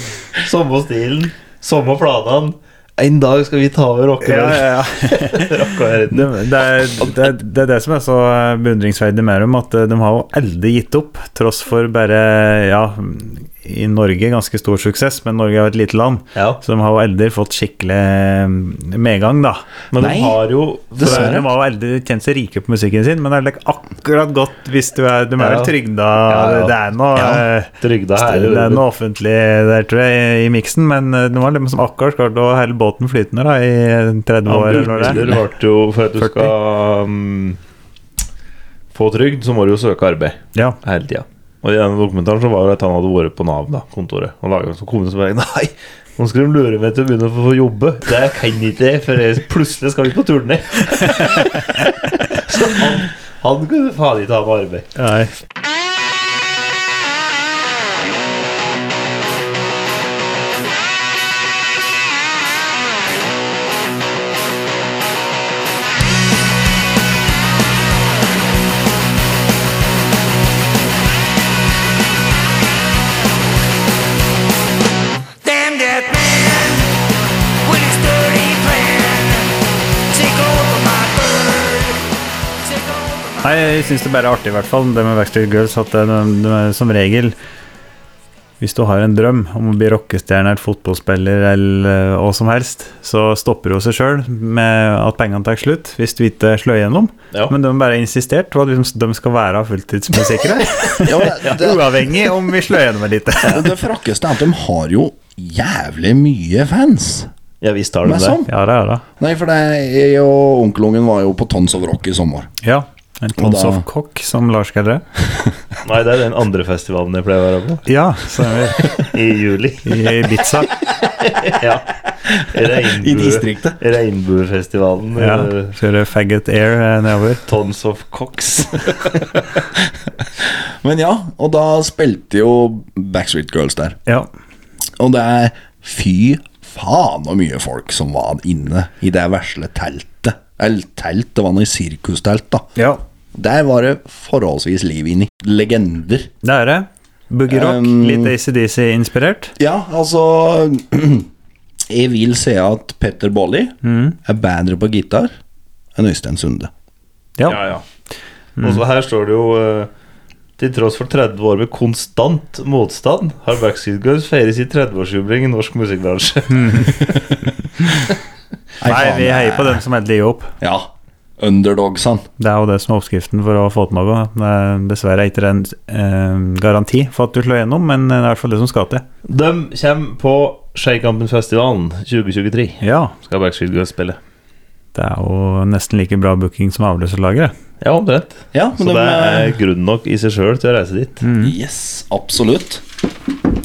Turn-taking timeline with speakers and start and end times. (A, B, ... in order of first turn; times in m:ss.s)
0:00.4-0:07.1 A
0:04.2-0:05.5 B
0:06.1-0:19.6 B
0:16.4-0:16.6 A
0:19.9-0:21.4 A
0:20.0-0:20.4 C
0:21.0-0:21.5 C
0:21.0-0:35.2 B
0:25.4-0:25.7 A
0:26.2-0:26.8 A
0:27.2-0:27.4 C
0:27.8-0:28.8 A
0:34.5-0:37.6 A
0:36.2-0:36.5 B
0:38.9-0:51.7 A
0:52.3-0:54.9 A
0:55.0-0:55.3 B
1:15.4-1:16.9 D
1:17.6-1:19.6 D
1:20.1-1:22.0 D
1:22.6-1:23.6 D
1:23.4-1:27.4 B
1:28.6-1:43.7 B
1:41.0-1:41.8 C
1:43.5-1:47.3 C
1:47.6-1:48.4 A
1:48.0-1:48.5 C
1:48.5-1:49.0 B
1:49.2-1:52.5 C
1:52.6-1:55.0 B
1:53.4-1:53.8 C
1:55.8-1:57.8 A
1:57.9-1:59.0 B
1:58.8-2:00.1 A
1:59.8-2:00.8 B
2:01.0-2:05.7 A
2:02.8-2:03.8 C
2:05.2-2:07.4 B
2:07.5-2:09.3 A
2:10.4-2:14.0 C
2:15.0-2:22.7 C
2:22.8-2:23.0 B
2:23.3-2:26.3 C
2:26.4-2:29.5 B
2:27.5-2:28.3 C
2:29.6-2:31.3 C
2:31.9-2:35.3 C
2:33.8-2:34.2 B
2:36.0-2:36.7 C
2:37.4-2:37.6 B
2:37.5-2:37.8 A
2:38.6-2:39.9 A
2:40.6-2:47.1 A
2:46.5-2:47.2 B
2:48.8-2:49.8 C
2:48.8-2:50.5 B
2:50.6-2:52.3 C
2:52.4-2:59.0 B
2:59.3-3:04.2 A
3:02.8-3:03.1 B
3:05.0-3:07.5 B
3:07.8-3:11.2 A
3:08.5-3:09.6 C
3:11.2-3:11.6 B
3:11.4-3:12.8 C